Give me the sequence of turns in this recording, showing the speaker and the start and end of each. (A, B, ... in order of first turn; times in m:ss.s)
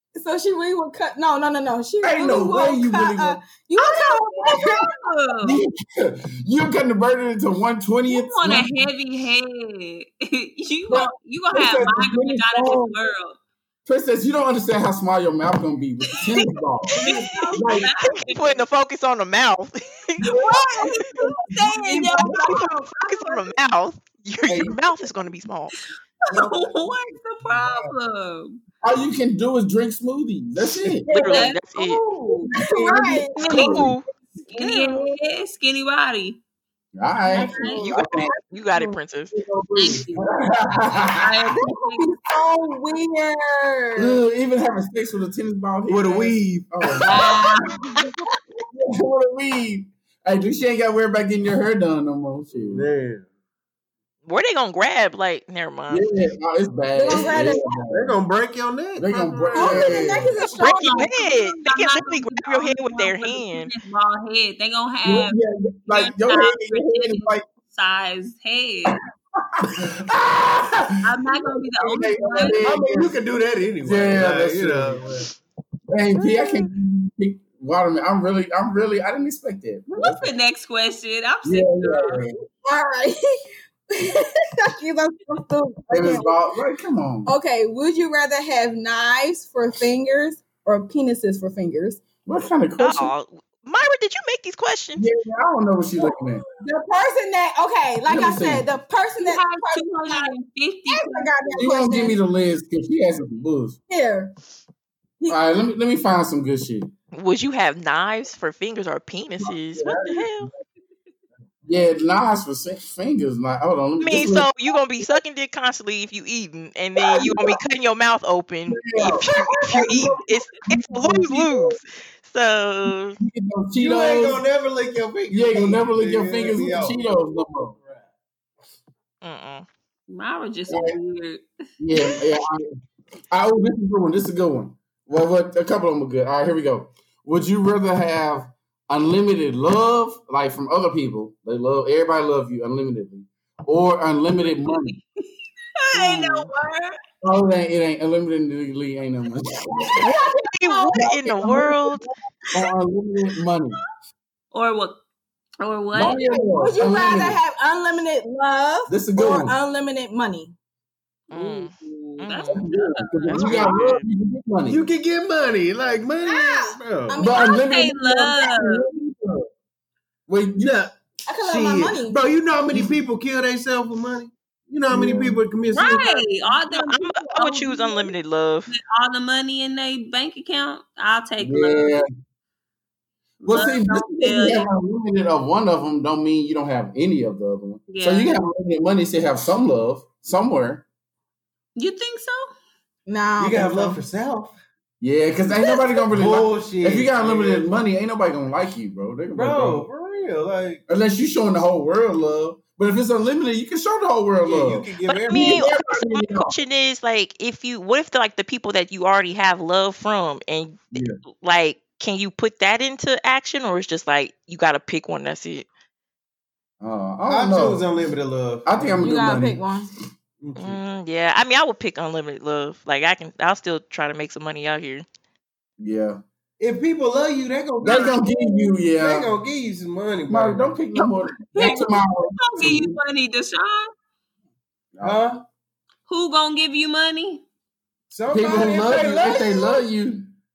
0:00.2-0:04.8 A
0:02.0-0:03.4 B
0:03.8-0:05.6 C
0:04.4-0:04.7 B
0:05.4-0:08.7 B
0:08.1-0:13.4 C
0:10.9-0:12.9 B
0:13.9-0:17.0 B
0:16.1-0:16.4 C
0:16.9-0:17.7 A
0:17.0-0:18.6 C
0:17.6-0:17.9 B
0:18.2-0:20.4 D
0:20.2-0:21.1 B
0:20.3-0:23.4 A
0:20.5-0:23.4 C
0:21.9-0:22.4 B
0:22.2-0:25.7 D
0:24.5-0:24.7 B
0:26.3-0:28.6 C
0:27.5-0:27.9 E
0:28.8-0:31.1 B
0:31.1-0:32.0 D
0:31.1-0:33.8 C
0:31.2-0:31.5 A
0:32.5-0:33.9 B
0:32.5-0:33.9 A
0:33.4-0:34.0 D
0:34.5-0:36.4 C
0:34.6-0:35.1 D
0:37.0-0:38.3 B
0:37.3-0:38.9 A
0:37.3-0:37.9 C
0:37.7-0:39.4 D
0:39.4-0:41.6 B
0:39.8-0:40.3 C
0:40.9-0:42.1 C
0:41.5-0:44.2 A
0:44.0-0:47.5 B
0:45.9-0:47.0 E
0:47.0-0:48.0 C
0:48.7-0:52.9 B
0:52.6-0:53.3 E
0:54.3-0:56.1 D
0:55.9-0:58.2 B
0:57.0-0:57.8 A
0:57.9-1:00.3 E
0:59.0-1:00.4 B
0:59.6-1:01.1 A
1:00.4-1:09.0 C
1:00.6-1:03.7 D
1:05.0-1:07.4 B
1:09.4-1:10.9 B
1:11.0-1:12.6 C
1:11.8-1:13.2 B
1:12.6-1:15.3 E
1:13.8-1:15.1 B
1:15.9-1:20.2 B
1:16.2-1:16.7 A
1:19.9-1:22.2 C
1:21.4-1:22.3 B
1:22.6-1:23.2 A
1:23.9-1:26.4 A
1:25.9-1:27.3 B
1:27.3-1:32.0 A
1:32.3-1:33.1 B
1:32.8-1:35.0 D
1:35.0-1:36.4 B
1:36.6-1:40.4 A
1:38.1-1:38.7 B
1:39.2-1:41.4 C
1:40.9-1:42.2 A
1:41.6-1:43.8 B
1:43.9-1:44.3 A
1:45.3-1:46.9 B
1:47.1-1:50.5 D
1:49.8-1:50.4 E
1:51.7-1:54.5 B
1:54.0-2:03.2 D
1:57.1-1:57.5 B
1:58.7-2:01.8 B
2:03.2-2:04.4 B
2:03.8-2:07.1 E
2:05.3-2:07.8 B
2:07.8-2:08.1 E
2:09.2-2:09.7 D
2:10.1-2:11.5 C
2:10.7-2:11.0 B
2:11.8-2:12.7 B
2:13.3-2:25.0 B
2:24.7-2:25.2 C
2:25.8-2:27.0 C
2:27.2-2:30.2 B
2:30.0-2:32.1 D
2:30.9-2:32.0 B
2:32.5-2:33.8 B
2:34.5-2:35.0 C
2:35.6-2:36.2 C
2:35.9-2:37.4 B
2:36.2-2:40.5 A
2:38.9-2:39.6 B
2:41.3-2:42.7 D
2:41.4-2:44.0 C
2:42.5-2:44.8 B
2:43.3-2:44.0 D
2:44.7-2:47.2 E
2:46.2-2:47.7 A
2:47.2-2:49.5 B
2:47.3-2:48.9 C
2:50.3-2:50.7 B
2:50.6-2:56.2 E
2:51.3-2:52.2 A
2:54.9-2:55.4 B
2:55.7-2:58.1 C
2:56.6-2:58.7 D
2:58.7-3:02.0 C
3:01.4-3:02.1 B
3:03.4-3:10.8 B
3:03.4-3:04.7 C
3:07.9-3:08.4 C
3:11.8-3:12.5 C
3:13.1-3:14.0 A
3:13.4-3:14.6 E
3:15.0-3:19.9 B
3:15.6-3:16.0 A
3:16.1-3:17.7 E
3:19.3-3:20.8 E
3:20.9-3:26.5 B
3:24.5-3:25.7 E
3:25.0-3:35.7 D
3:36.8-3:37.9 B
3:37.3-3:39.0 E
3:38.6-3:39.6 B
3:39.0-3:39.9 A
3:40.4-3:40.8 E
3:40.6-3:45.0 D
3:45.8-3:46.2 B
3:46.6-3:48.3 E
3:47.8-3:49.3 B
3:48.3-3:48.6 A
3:48.9-3:50.8 E
3:50.3-3:53.0 B
3:51.0-3:51.8 A
3:51.5-3:53.9 C
3:55.0-3:55.4 E
3:56.1-3:57.4 C
3:58.1-3:59.8 E
3:58.3-4:00.3 B